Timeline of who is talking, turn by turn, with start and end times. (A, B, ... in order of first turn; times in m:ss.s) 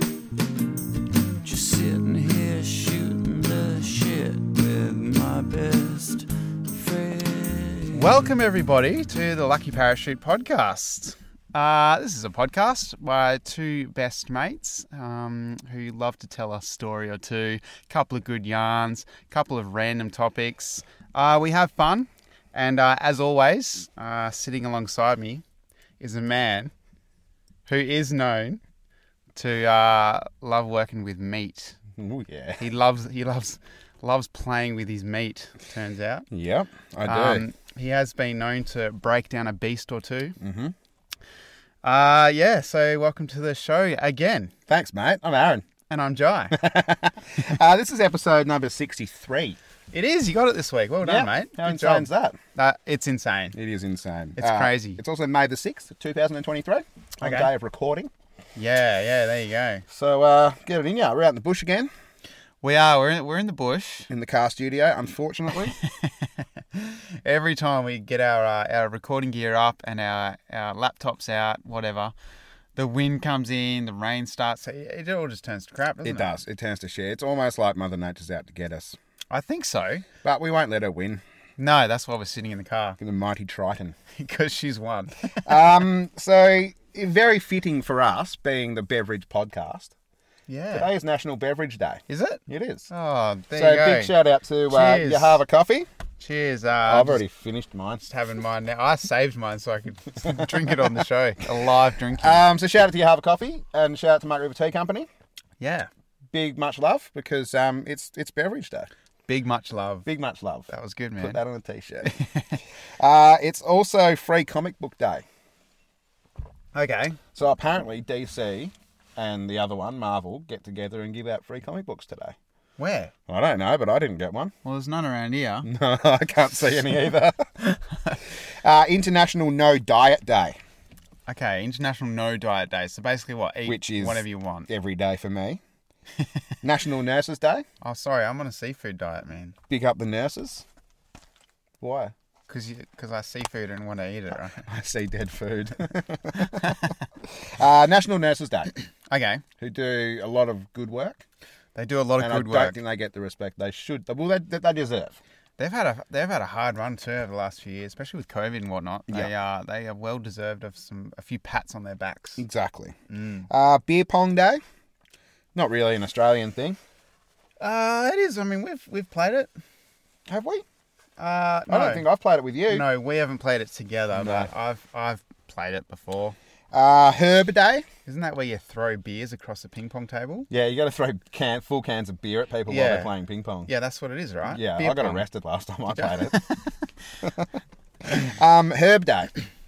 0:01.4-0:08.3 A
0:07.9-0:25.4 B
0:26.0-0:26.7 B
0:27.7-0:28.6 B
0:29.4-0:31.8 B
0:32.0-0:32.6 C
0:32.6-0:36.3 B
0:36.3-0:37.4 C
0:37.0-0:40.4 B
0:40.4-0:40.8 C
0:41.8-0:44.5 B
0:44.7-0:45.6 C
0:45.9-0:46.6 B
0:46.5-0:49.6 C
0:49.9-0:53.6 B
0:51.0-0:52.4 C
0:53.5-0:58.1 C
0:54.4-0:55.0 B
0:57.2-0:57.5 B
0:58.6-0:59.8 B
0:59.9-1:01.9 C
1:02.6-1:04.1 B
1:04.1-1:05.8 C
1:05.8-1:12.1 B
1:12.8-1:16.3 B
1:16.0-1:19.0 C
1:19.3-1:20.1 B
1:20.2-1:21.2 C
1:21.6-1:23.0 B
1:23.0-1:24.0 C
1:24.1-1:25.8 B
1:25.4-1:29.9 C
1:30.5-1:30.9 B
1:30.7-1:32.9 C
1:32.1-1:34.1 B
1:33.5-1:35.9 C
1:34.7-1:35.4 B
1:36.2-1:37.2 B
1:36.9-1:38.1 C
1:38.0-1:42.4 B
1:40.2-1:41.0 C
1:42.2-1:45.1 C
1:45.6-1:45.9 B
1:46.3-1:48.9 C
1:49.3-1:50.1 B
1:50.1-1:52.1 C
1:50.7-1:51.4 B
1:52.0-1:52.6 B
1:53.0-1:55.2 C
1:56.7-1:57.2 B
1:57.4-2:02.4 C
2:02.8-2:03.1 B
2:03.3-2:04.5 C
2:04.6-2:05.7 B
2:05.6-2:07.8 C
2:08.5-2:10.6 C
2:11.3-2:14.7 B
2:13.7-2:15.6 C
2:16.6-2:17.6 C
2:17.8-2:19.6 B
2:19.7-2:20.6 C
2:21.8-2:22.1 C
2:22.5-2:24.6 B
2:24.6-2:28.7 C
2:26.5-2:26.9 B
2:29.1-2:29.4 B
2:29.6-2:31.2 C
2:31.8-2:32.8 B
2:32.2-2:35.2 C
2:35.6-2:42.4 B
2:42.4-2:43.0 C
2:43.1-2:43.5 B
2:43.5-2:44.6 C
2:45.6-2:46.8 C
2:47.6-2:49.5 B
2:50.3-2:50.6 C
2:51.2-2:52.0 B
2:51.7-2:52.9 C
2:52.7-2:56.4 B
2:54.1-2:54.5 C
2:56.7-2:57.9 C
2:58.1-3:00.5 B
3:00.5-3:03.7 C
3:02.7-3:03.1 B
3:03.7-3:05.2 B
3:04.5-3:06.4 C
3:05.9-3:06.9 B
3:07.2-3:07.5 C
3:08.0-3:09.4 C